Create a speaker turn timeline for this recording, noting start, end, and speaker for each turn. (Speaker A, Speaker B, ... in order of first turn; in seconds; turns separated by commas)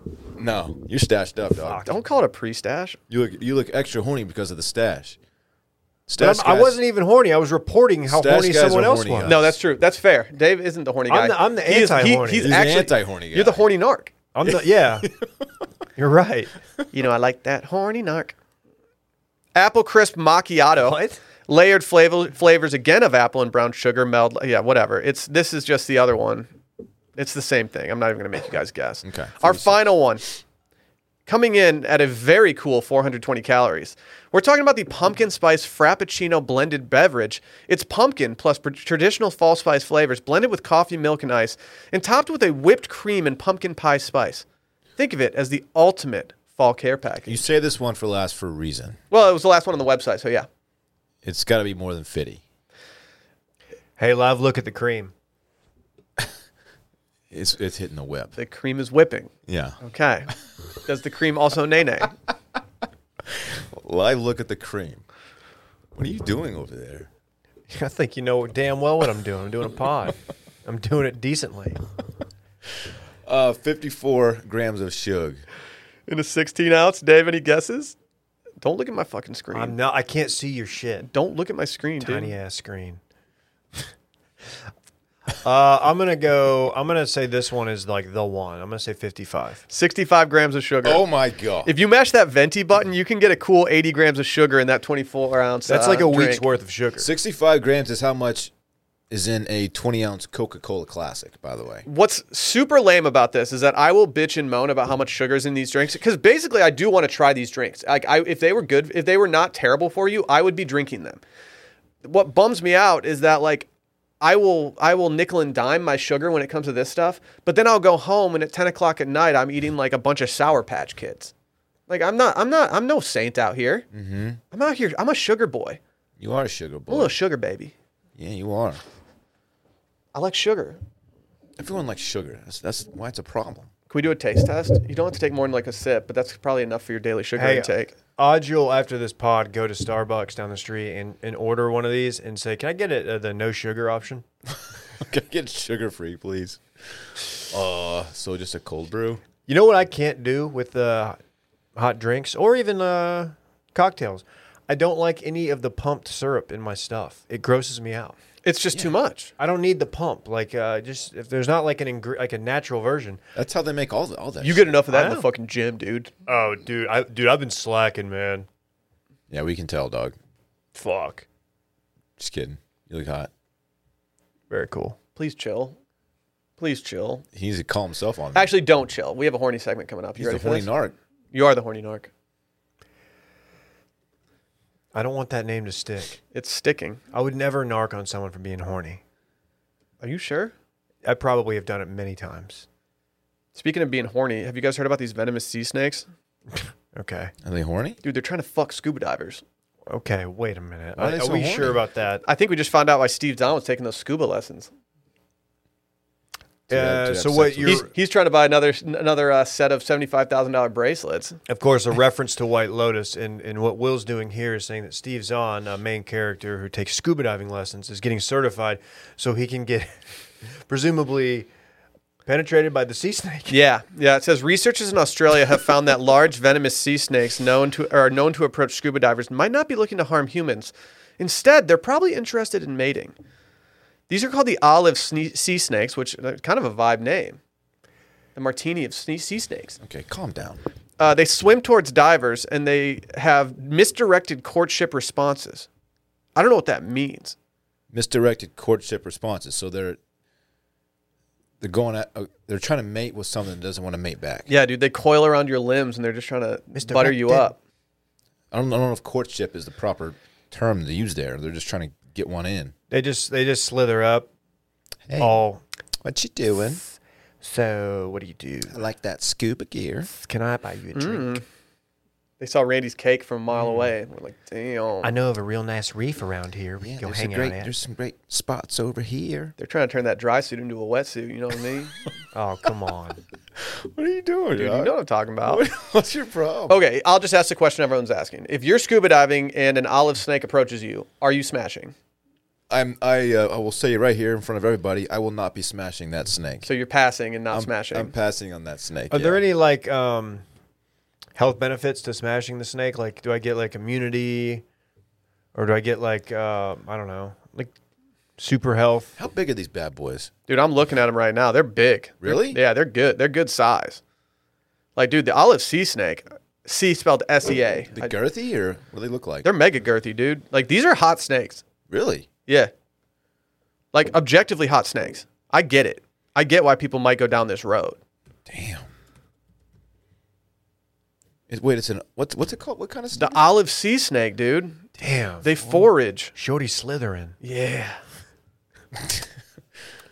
Speaker A: 0.3-1.8, Speaker B: 1.6-2.0, Speaker C: 1.8-3.0, Speaker A: 3.1-5.2, Speaker A: 6.1-6.8, Speaker B: 6.2-9.3, Speaker A: 8.1-9.6, Speaker C: 9.2-14.1, Speaker B: 11.1-12.5, Speaker A: 12.4-13.6, Speaker B: 14.3-15.1, Speaker A: 14.5-15.5, Speaker B: 16.0-16.5, Speaker C: 16.9-18.3, Speaker C: 19.5-26.5, Speaker B: 20.8-21.2, Speaker C: 27.1-30.2, Speaker A: 29.0-29.9, Speaker C: 31.3-44.4, Speaker C: 45.0-47.4, Speaker A: 47.3-49.0, Speaker C: 49.1-50.5, Speaker A: 51.2-52.4, Speaker B: 54.0-55.1, Speaker A: 57.3-58.4, Speaker C: 58.4-60.3, Speaker A: 59.5-59.8, Speaker C: 60.8-62.1, Speaker A: 63.2-65.0, Speaker A: 65.9-67.1, Speaker B: 67.7-71.8, Speaker A: 73.2-75.4, Speaker C: 76.1-78.0, Speaker C: 78.6-79.7, Speaker B: 79.5-81.1, Speaker C: 81.1-82.3, Speaker B: 82.0-83.0, Speaker B: 85.4-89.6, Speaker C: 89.7-91.0, Speaker A: 90.8-91.7, Speaker C: 91.6-96.4, Speaker B: 95.7-97.1, Speaker A: 97.0-98.5, Speaker A: 99.1-101.8, Speaker C: 101.8-111.2, Speaker C: 112.0-113.7, Speaker C: 114.2-121.3, Speaker C: 121.9-123.9, Speaker A: 123.9-124.4, Speaker C: 124.5-125.8, Speaker A: 126.2-127.2, Speaker C: 126.9-127.7, Speaker A: 128.2-128.8, Speaker C: 130.1-130.8, Speaker A: 131.6-133.7, Speaker C: 133.9-137.9, Speaker B: 137.4-144.2, Speaker A: 144.9-149.2, Speaker B: 149.5-151.2, Speaker B: 151.8-158.2, Speaker C: 158.4-159.3, Speaker B: 159.4-163.2, Speaker A: 163.3-164.8, Speaker C: 164.4-166.1, Speaker B: 164.9-165.3, Speaker B: 166.3-168.5, Speaker A: 169.3-170.2, Speaker B: 170.7-171.2, Speaker A: 172.2-173.3, Speaker B: 174.5-174.9, Speaker C: 175.2-175.8, Speaker C: 176.6-177.2, Speaker A: 177.3-178.5, Speaker C: 178.3-180.7, Speaker A: 180.2-180.9, Speaker C: 181.3-182.1, Speaker B: 184.9-186.2, Speaker C: 186.3-187.0, Speaker B: 187.1-189.0, Speaker C: 190.0-190.5, Speaker B: 191.0-192.7, Speaker C: 193.5-196.1, Speaker B: 196.9-197.3, Speaker A: 197.4-198.0, Speaker C: 198.0-199.4, Speaker B: 199.9-202.2, Speaker A: 200.9-201.8, Speaker C: 202.2-204.7, Speaker A: 206.7-207.8, Speaker B: 206.7-207.9, Speaker C: 207.7-211.4, Speaker B: 211.5-220.0, Speaker B: 220.7-221.5, Speaker B: 222.2-223.6, Speaker C: 223.5-233.1, Speaker C: 234.1-237.4, Speaker C: 238.3-239.8, Speaker A: 239.8-240.6, Speaker C: 241.0-245.7, Speaker C: 246.3-247.3, Speaker A: 247.9-250.0, Speaker A: 251.6-254.5, Speaker C: 254.5-257.6, Speaker B: 256.7-257.5, Speaker A: 258.5-262.7, Speaker B: 262.9-264.3, Speaker A: 265.1-265.4, Speaker B: 265.2-265.6, Speaker A: 266.0-266.8, Speaker B: 267.4-268.8, Speaker A: 268.7-270.1, Speaker B: 270.1-271.4, Speaker C: 270.9-271.4, Speaker C: 272.4-275.1, Speaker B: 275.0-277.7, Speaker A: 276.8-279.5, Speaker C: 279.6-282.0, Speaker B: 282.3-283.2, Speaker A: 283.6-286.8, Speaker C: 284.5-285.6, Speaker C: 286.7-291.9, Speaker A: 292.7-296.7, Speaker C: 296.6-298.1, Speaker A: 297.5-299.4, Speaker B: 299.1-300.4, Speaker B: 301.4-304.6, Speaker B: 305.5-307.7, Speaker B: 308.4-309.1, Speaker A: 309.2-310.3, Speaker C: 310.5-314.0, Speaker A: 312.2-312.6, Speaker C: 314.9-318.1, Speaker A: 317.9-319.5, Speaker C: 319.4-321.6, Speaker A: 321.9-322.3, Speaker C: 323.9-328.0, Speaker A: 328.5-328.9, Speaker A: 331.5-333.4, Speaker C: 333.1-334.9, Speaker B: 335.0-335.7, Speaker C: 335.4-336.3, Speaker B: 336.3-337.4, Speaker C: 337.4-338.0, Speaker A: 339.0-339.2